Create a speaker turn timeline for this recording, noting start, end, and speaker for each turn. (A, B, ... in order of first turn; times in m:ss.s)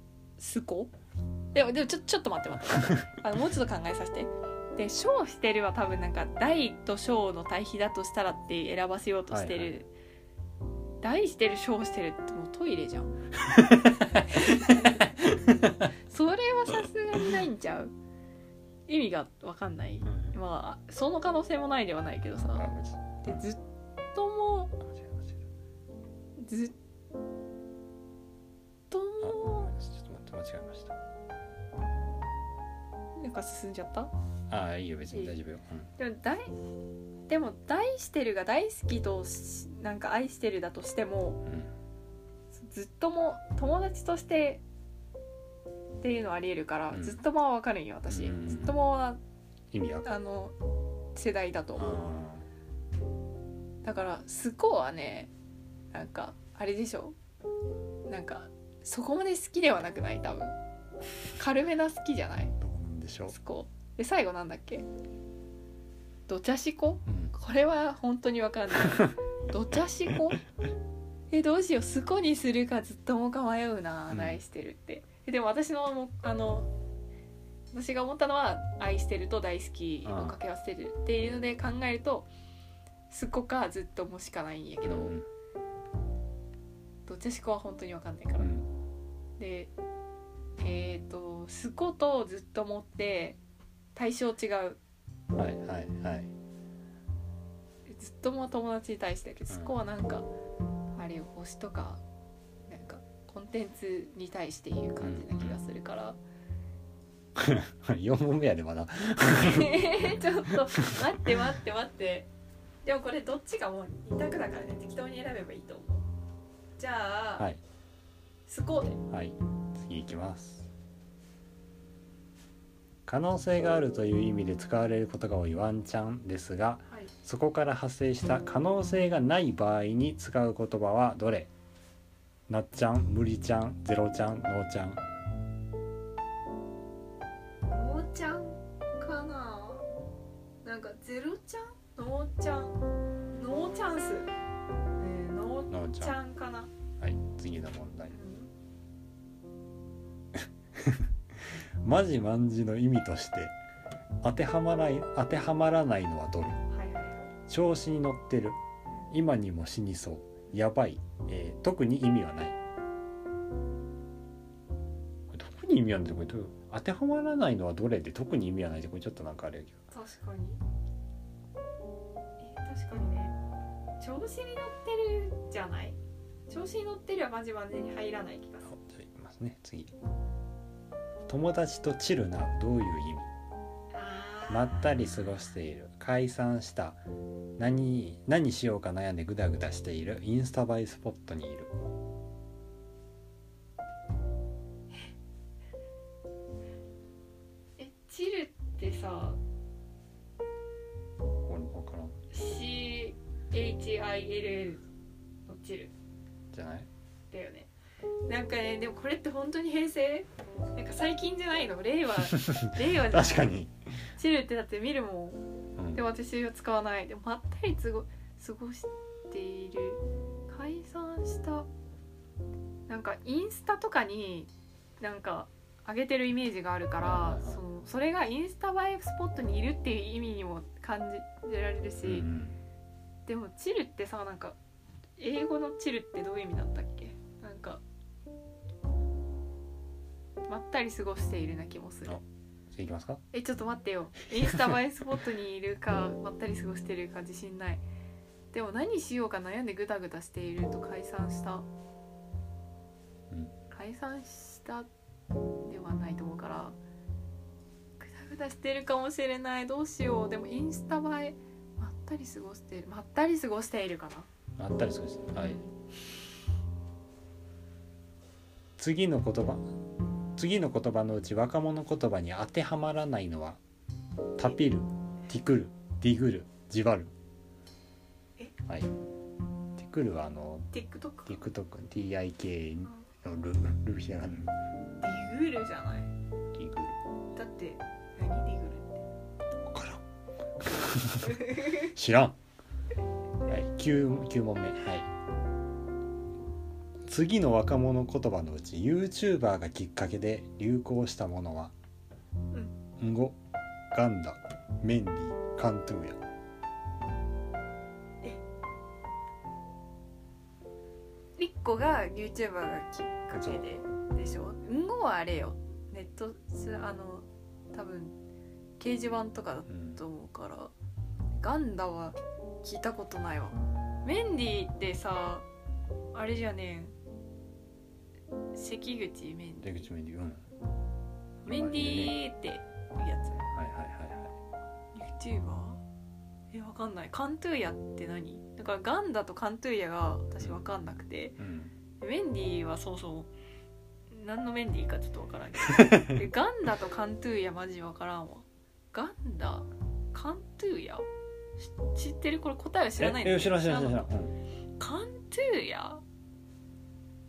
0:00.4-0:00.9 A
0:01.5-0:09.9 A
0:09.3-0:09.8 B
0:11.0-0:13.2 A
0:13.5-0:15.8 B
0:14.3-0:17.9 A
0:18.9-0:22.7 A
0:20.0-0:20.3 B
0:22.5-0:23.5 B
0:23.2-0:23.6 A
0:24.1-0:24.7 A
0:24.8-0:25.4 B
0:26.4-0:26.7 A
0:28.9-0:29.7 A
0:29.2-0:31.0 B
0:33.2-0:34.1 A
0:34.5-0:35.9 B
0:36.0-0:36.5 A
0:37.3-0:41.4 A
0:42.5-0:44.6 A
0:46.0-0:49.2 A
0:46.9-0:47.2 B
0:48.1-0:48.8 B
0:49.7-0:50.1 B
0:50.0-0:50.5 A
0:51.1-0:52.0 A
0:51.8-0:52.5 B
0:53.8-0:55.3 A
0:55.9-0:57.2 A
0:58.0-1:00.5 A
1:01.4-1:02.5 A
1:02.6-1:03.3 B
1:03.3-1:04.8 A
1:06.3-1:10.4 A
1:07.1-1:07.3 B
1:08.7-1:09.1 B
1:11.3-1:16.7 A
1:14.1-1:14.4 B
1:17.7-1:22.3 A
1:20.0-1:20.4 B
1:23.1-1:25.1 A
1:24.8-1:25.2 B
1:27.0-1:28.5 A
1:28.4-1:28.7 B
1:29.4-1:29.7 A
1:30.6-1:33.4 A
1:33.9-1:34.8 A
1:35.4-1:36.3 B
1:37.9-1:40.3 A
1:39.5-1:39.7 B
1:40.9-1:42.0 A
1:42.7-1:46.2 A
1:45.0-1:45.6 B
1:47.4-1:50.5 B
1:49.3-1:52.3 A
1:52.8-1:56.0 A
1:56.8-1:57.5 A
1:58.5-1:59.0 A
1:59.1-2:00.7 B
2:03.1-2:11.5 B
2:12.5-2:15.0 B
2:17.7-2:19.8 A
2:20.6-2:22.8 A
2:23.3-2:24.3 A
2:25.0-2:26.7 A
2:25.7-2:26.2 B
2:27.0-2:28.1 B
2:28.1-2:28.5 A
2:30.8-2:33.5 B
2:34.2-2:36.6 B
2:36.7-2:37.3 A
2:37.5-2:38.6 B
2:39.1-2:42.6 B
2:45.3-2:49.8 B
2:49.9-2:50.6 A
2:52.4-2:53.4 A
2:54.0-2:58.7 A
2:58.6-2:59.9 B
3:01.3-3:03.3 B
3:03.9-3:05.0 A
3:04.5-3:07.0 B
3:07.6-3:11.7 B
3:17.8-3:19.4 A
3:21.4-3:22.1 B
3:22.3-3:24.8 A
3:25.5-3:25.9 A
3:26.5-3:26.9 B
3:27.3-3:27.7 A
3:28.3-3:33.5 A
3:33.1-3:33.7 B
3:34.2-3:35.4 A
3:35.8-3:36.0 B
3:35.9-3:41.7 A
3:42.9-3:44.5 A
3:45.0-3:52.3 A
3:47.0-3:47.6 B
3:52.0-3:52.6 B
3:53.3-3:54.6 A
3:55.2-3:57.8 A
4:00.5-4:02.2 A
4:02.7-4:03.2 B
4:03.3-4:07.8 A
4:08.5-4:11.7 A
4:13.7-4:14.9 A
4:15.6-4:16.8 A
4:18.0-4:24.3 A
4:24.6-4:25.6 B
4:25.3-4:25.7 A
4:28.8-4:29.6 B
4:30.4-4:33.6 B
4:34.4-4:37.1 B
4:39.8-4:40.7 B
4:40.7-4:41.4 A
4:41.2-4:44.5 B
4:45.0-4:46.1 A
4:46.5-4:47.0 B
4:47.3-4:49.0 A
4:49.7-4:50.0 B
4:50.6-4:52.4 B
4:51.4-4:51.7 A
4:53.5-4:55.1 B
4:57.0-5:01.7 B
5:03.0-5:03.4 B
5:03.9-5:06.2 B
5:11.4-5:18.1 A
5:13.3-5:13.8 B
5:18.8-5:20.7 A
5:19.7-5:20.0 B
5:21.4-5:25.4 A
5:26.1-5:26.9 A
5:28.5-5:29.9 A
5:29.6-5:30.4 B
5:31.4-5:33.4 A
5:31.4-5:32.2 B
5:33.5-5:34.3 B
5:34.9-5:35.8 A
5:36.5-5:41.4 A
5:41.4-5:41.7 B
5:42.0-5:43.3 A
5:44.1-5:51.1 A
5:45.8-5:46.1 B
5:51.6-5:54.1 A
5:53.0-5:54.4 B
5:54.8-5:56.0 A